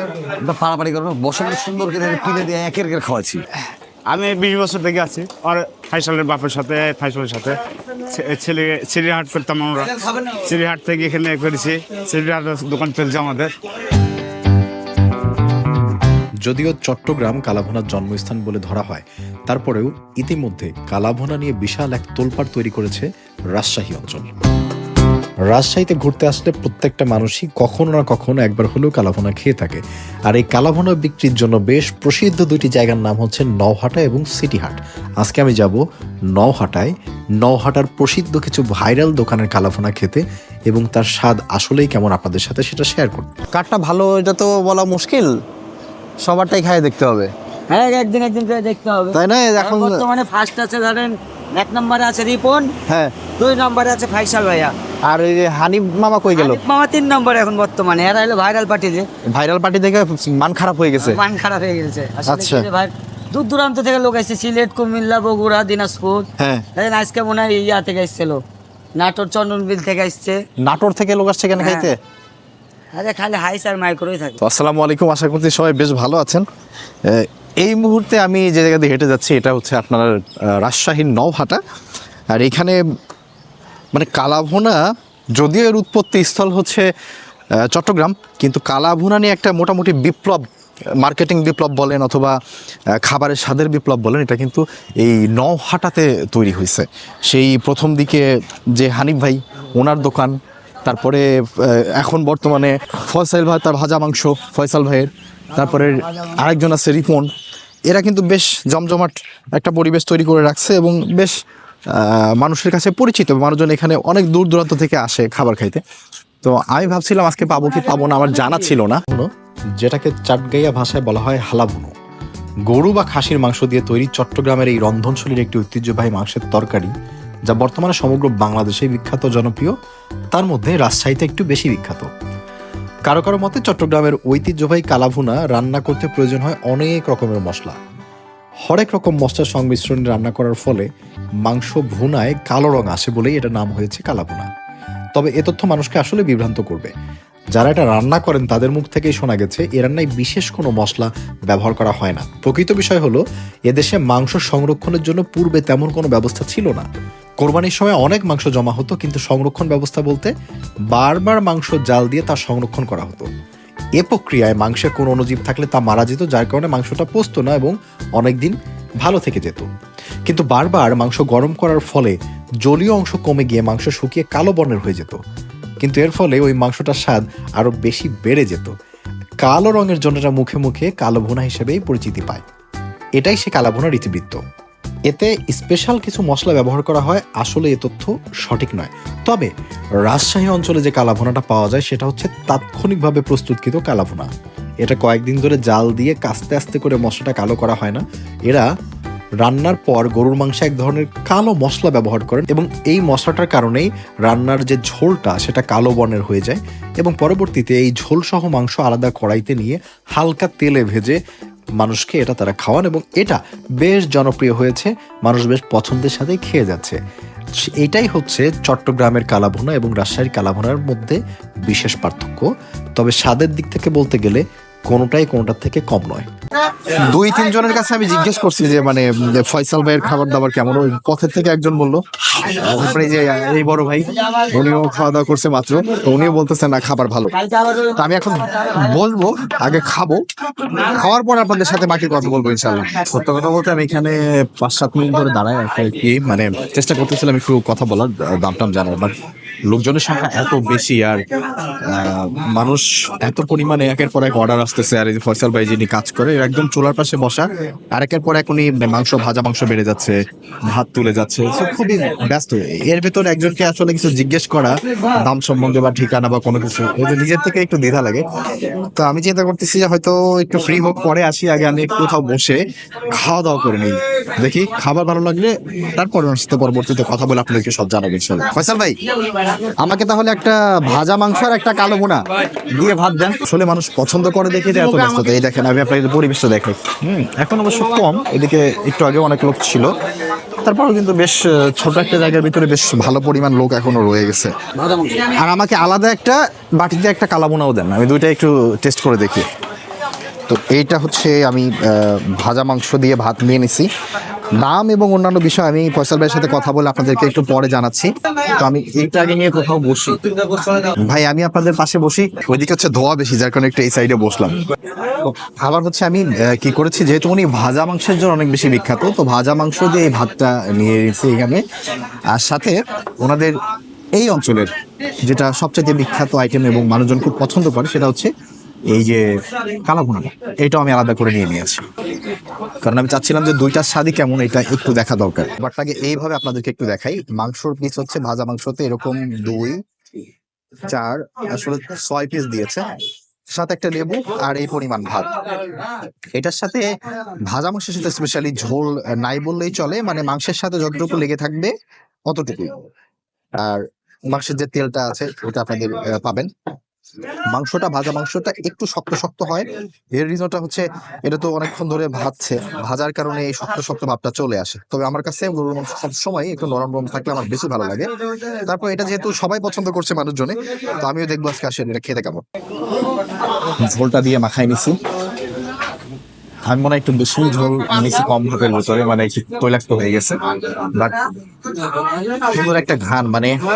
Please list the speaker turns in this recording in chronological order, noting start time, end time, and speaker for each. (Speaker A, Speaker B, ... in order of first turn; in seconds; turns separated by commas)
Speaker A: 0.4-3.4, Speaker B: 4.1-7.6, Speaker B: 8.1-13.5, Speaker C: 16.4-24.3, Speaker C: 25.5-35.8, Speaker C: 36.4-36.9, Speaker C: 37.4-43.4, Speaker D: 43.5-45.3, Speaker D: 46.2-47.3, Speaker E: 47.7-52.7, Speaker D: 49.1-50.0, Speaker D: 52.9-53.3, Speaker E: 53.3-54.7, Speaker D: 55.0-56.6, Speaker E: 56.3-59.1, Speaker D: 59.3-61.2, Speaker E: 61.0-68.4, Speaker D: 62.2-62.7, Speaker D: 66.4-66.6, Speaker E: 69.0-70.4, Speaker D: 70.6-71.9, Speaker E: 71.5-71.9, Speaker E: 72.9-74.4, Speaker D: 74.4-76.4, Speaker D: 77.1-81.6, Speaker D: 82.3-82.8, Speaker D: 83.9-84.8, Speaker D: 85.4-86.8, Speaker D: 87.6-90.4, Speaker D: 91.0-92.3, Speaker D: 93.0-98.2, Speaker D: 98.8-107.2, Speaker D: 107.9-111.3, Speaker D: 111.9-115.8, Speaker D: 116.4-119.0, Speaker C: 119.8-121.9, Speaker C: 122.7-126.9, Speaker C: 127.5-129.7, Speaker C: 130.3-132.1, Speaker C: 133.1-137.8, Speaker C: 138.7-140.8, Speaker C: 141.4-144.4, Speaker C: 145.2-146.9, Speaker C: 147.5-156.8, Speaker C: 157.4-160.3, Speaker C: 160.9-163.2, Speaker C: 164.0-169.7, Speaker C: 170.3-175.2, Speaker C: 175.8-178.7, Speaker C: 179.4-182.4, Speaker C: 183.2-184.4, Speaker C: 185.1-189.5, Speaker C: 190.1-194.3, Speaker C: 194.8-198.7, Speaker C: 199.4-211.2, Speaker C: 211.8-217.0, Speaker C: 217.8-226.3, Speaker D: 226.9-237.3, Speaker E: 237.3-238.0, Speaker D: 237.9-240.2, Speaker D: 240.8-249.1, Speaker D: 249.7-251.2, Speaker D: 251.9-260.1, Speaker D: 260.7-268.2, Speaker D: 268.9-272.6, Speaker D: 273.2-279.0, Speaker D: 279.8-282.2, Speaker D: 282.7-289.9, Speaker D: 290.6-294.5, Speaker A: 294.8-295.2, Speaker D: 295.4-299.4, Speaker D: 300.5-303.9, Speaker D: 304.6-314.6, Speaker D: 315.1-321.6, Speaker D: 322.3-323.6, Speaker D: 324.1-324.7, Speaker D: 325.2-328.3, Speaker D: 328.9-329.2, Speaker D: 329.8-331.8, Speaker D: 332.8-339.8, Speaker D: 340.9-342.9, Speaker D: 343.5-345.3, Speaker D: 346.4-346.8, Speaker D: 347.4-351.7, Speaker D: 352.3-352.8, Speaker D: 353.6-356.5, Speaker D: 357.5-368.1, Speaker D: 368.6-372.4, Speaker D: 373.8-374.9, Speaker D: 376.6-380.4, Speaker D: 382.4-383.6